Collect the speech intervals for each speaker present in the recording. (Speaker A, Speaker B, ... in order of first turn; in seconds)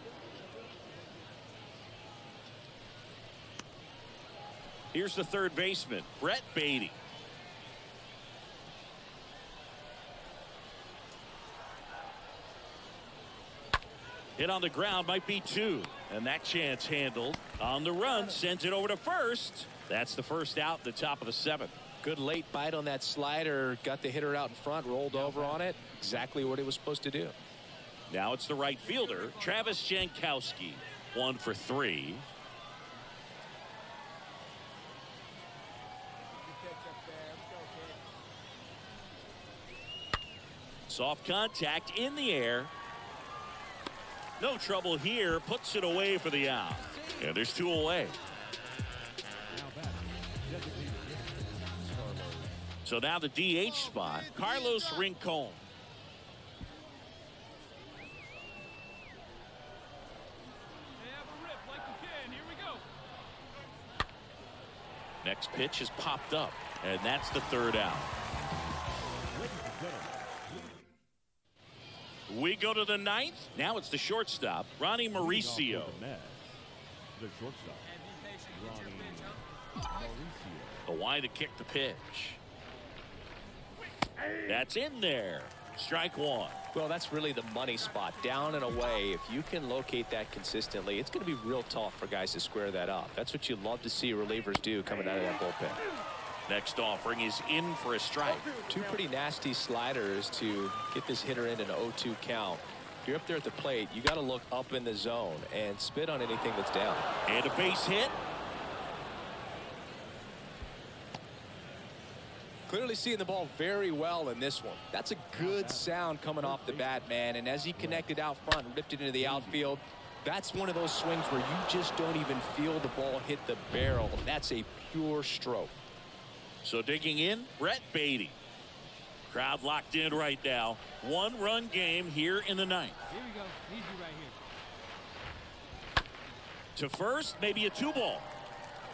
Speaker A: 4.9-7.0, 14.4-21.8, 28.1-32.3, 40.9-42.7, 44.4-48.2, 52.8-55.6, 65.2-68.1, 72.3-76.0, 80.9-82.4, 84.5-86.6, 96.5-98.6, 107.3-108.2, 126.6-128.4, 129.3-133.0, 136.8-138.3
Speaker B: 22.0-27.4, 86.7-95.8, 98.6-107.1, 112.7-125.8
Speaker C: 25.2-25.6, 49.5-52.6, 69.3-70.7, 75.1-76.6, 77.2-80.9, 115.3-117.1, 117.8-118.1, 119.2-119.8
Speaker D: 36.6-37.9, 61.0-62.8, 78.0-79.4, 133.1-134.4